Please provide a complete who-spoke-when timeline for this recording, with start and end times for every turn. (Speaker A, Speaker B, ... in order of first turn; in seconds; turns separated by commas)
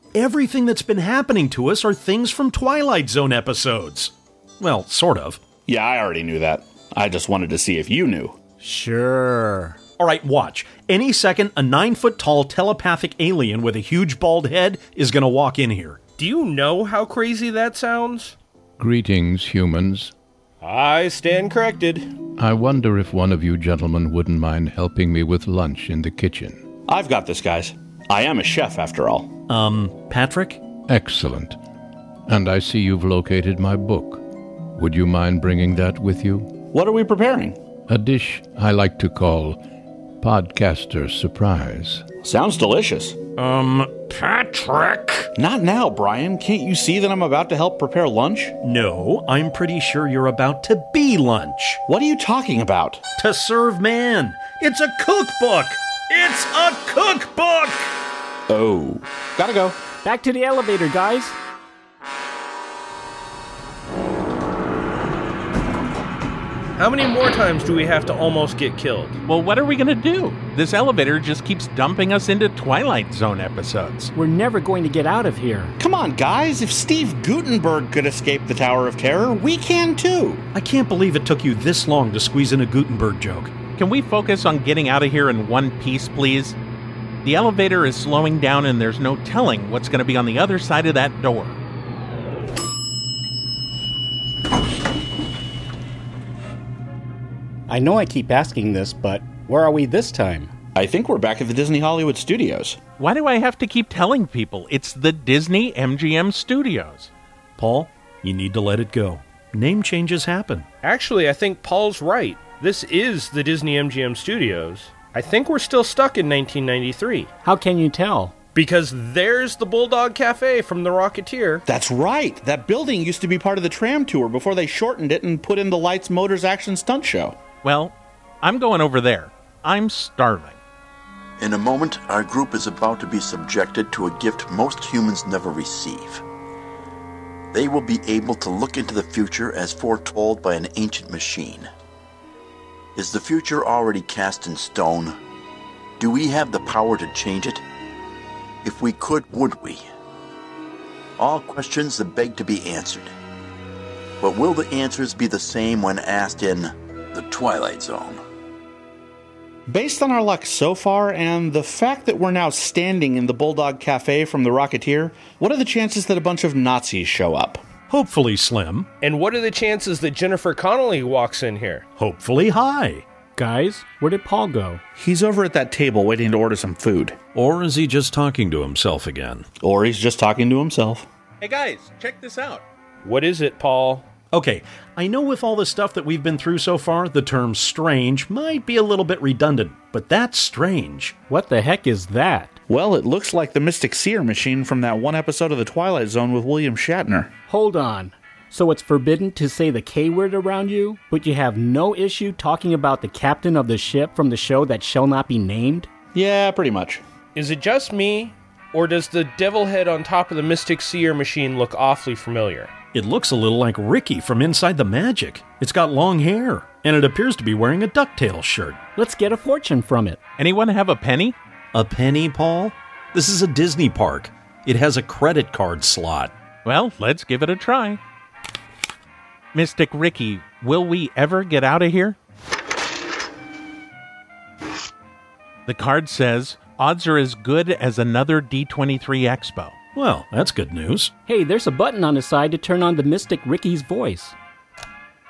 Speaker A: 0.1-5.4, Speaker B: 5.7-8.4, Speaker C: 8.6-9.8, Speaker A: 10.0-16.0, Speaker D: 16.2-18.3, Speaker E: 18.8-20.1, Speaker D: 20.6-22.1, Speaker E: 22.4-26.6, Speaker B: 26.9-29.3, Speaker A: 29.5-30.6, Speaker E: 30.9-31.5, Speaker E: 32.3-34.2, Speaker E: 34.8-36.5, Speaker B: 36.7-37.6, Speaker E: 37.9-39.6, Speaker E: 40.2-42.0, Speaker B: 42.2-43.2, Speaker B: 45.4-48.5, Speaker A: 48.6-51.8, Speaker B: 51.9-53.0, Speaker A: 53.2-57.9, Speaker B: 58.5-59.8, Speaker C: 60.0-61.4, Speaker D: 66.8-69.2, Speaker F: 69.3-74.1, Speaker C: 74.1-75.7, Speaker B: 75.8-80.5, Speaker A: 80.5-83.5, Speaker F: 83.8-86.6, Speaker F: 87.2-91.6, Speaker C: 97.7-100.5, Speaker B: 100.7-102.8, Speaker F: 103.0-107.1, Speaker A: 107.6-110.7, Speaker D: 110.8-117.3, Speaker C: 117.4-118.3, Speaker D: 118.5-121.6, Speaker B: 121.7-127.4, Speaker F: 127.6-130.6, Speaker G: 131.4-136.2, Speaker G: 137.5-141.7, Speaker G: 142.9-145.2, Speaker G: 146.0-147.6, Speaker G: 148.6-149.8, Speaker G: 151.2-153.1, Speaker G: 154.2-158.2, Speaker B: 159.7-167.6, Speaker A: 167.9-168.9, Speaker D: 169.0-171.8, Speaker A: 172.0-173.0, Speaker C: 173.3-174.8, Speaker B: 174.9-177.2, Speaker A: 177.3-179.5, Speaker B: 179.6-181.1, Speaker F: 181.4-182.6, Speaker D: 183.0-184.1, Speaker A: 184.3-191.2, Speaker C: 191.3-192.6, Speaker B: 192.7-197.3, Speaker C: 197.5-205.9, Speaker B: 206.1-207.0, Speaker D: 207.3-212.7, Speaker A: 212.9-218.8, Speaker C: 218.9-220.2, Speaker F: 220.4-221.3, Speaker A: 221.7-226.3, Speaker F: 226.6-228.0, Speaker F: 229.5-232.2, Speaker F: 235.7-239.8, Speaker A: 239.9-241.1, Speaker C: 241.3-244.3